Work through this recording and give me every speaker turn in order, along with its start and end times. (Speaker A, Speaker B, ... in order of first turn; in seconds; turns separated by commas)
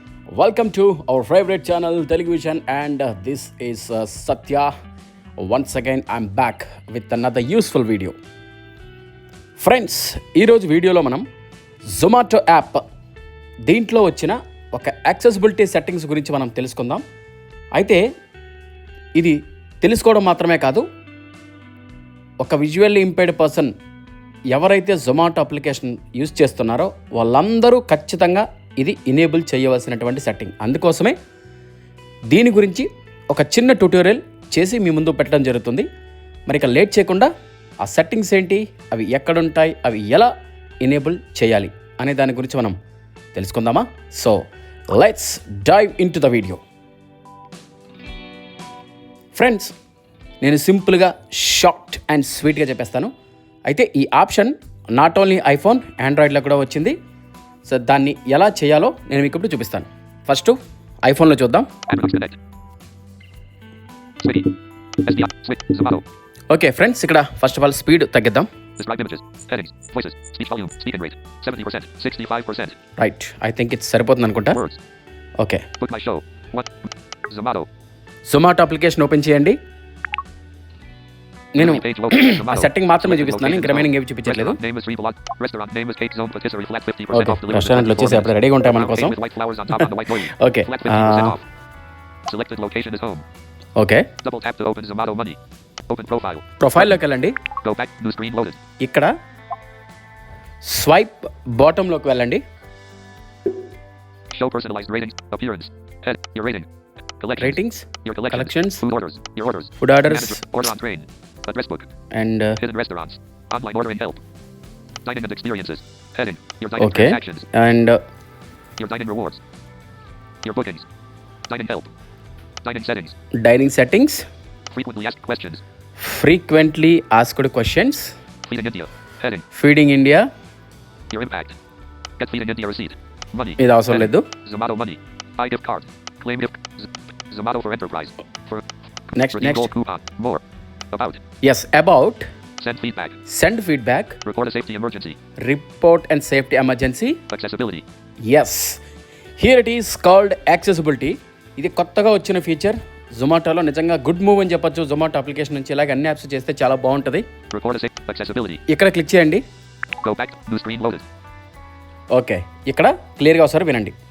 Speaker A: 0.3-4.7, Speaker A: 5.4-8.1, Speaker A: 9.6-11.2, Speaker A: 11.9-12.8, Speaker A: 13.7-17.0, Speaker A: 17.8-18.0, Speaker A: 19.2-20.8, Speaker A: 22.4-23.7, Speaker A: 24.5-31.1, Speaker A: 32.3-35.9, Speaker A: 36.5-37.3, Speaker A: 37.8-40.3, Speaker A: 40.8-42.8, Speaker A: 43.3-44.4, Speaker A: 44.9-46.6, Speaker A: 49.3-49.7, Speaker A: 50.4-53.1, Speaker A: 53.7-57.0, Speaker A: 57.7-61.7, Speaker B: 61.9-62.4, Speaker B: 64.2-66.0, Speaker A: 66.5-68.5, Speaker B: 68.8-72.8, Speaker A: 73.0-74.6, Speaker B: 74.5-74.8, Speaker B: 75.8-77.7, Speaker A: 78.3-79.6, Speaker A: 81.5-84.6, Speaker B: 81.6-91.4, Speaker A: 87.1-89.1, Speaker A: 89.8-91.4, Speaker B: 92.3-93.2, Speaker A: 93.8-94.1, Speaker B: 94.2-96.9, Speaker A: 96.6-97.4, Speaker B: 97.6-98.6, Speaker A: 98.8-99.1, Speaker A: 100.6-102.4, Speaker B: 104.3-106.7, Speaker B: 107.2-111.9, Speaker A: 107.4-108.8, Speaker A: 109.8-110.4, Speaker A: 112.1-112.6, Speaker B: 112.6-114.2, Speaker B: 115.1-117.5, Speaker A: 116.8-118.0, Speaker B: 118.8-119.4, Speaker B: 120.4-120.9, Speaker B: 121.5-121.9, Speaker B: 122.6-123.1, Speaker A: 123.4-124.2, Speaker B: 124.7-125.6, Speaker A: 126.0-128.1, Speaker B: 128.5-129.4, Speaker A: 129.5-130.3, Speaker B: 131.1-131.6, Speaker B: 132.2-138.6, Speaker A: 133.6-134.2, Speaker A: 139.1-139.7, Speaker B: 139.2-141.2, Speaker A: 141.4-142.3, Speaker B: 142.6-143.2, Speaker A: 143.3-144.2, Speaker B: 144.2-145.2, Speaker A: 145.4-147.2, Speaker B: 147.3-147.8, Speaker A: 148.3-148.8, Speaker A: 149.4-157.2, Speaker B: 157.5-158.6, Speaker A: 158.7-159.4, Speaker B: 160.0-161.0, Speaker A: 162.1-163.9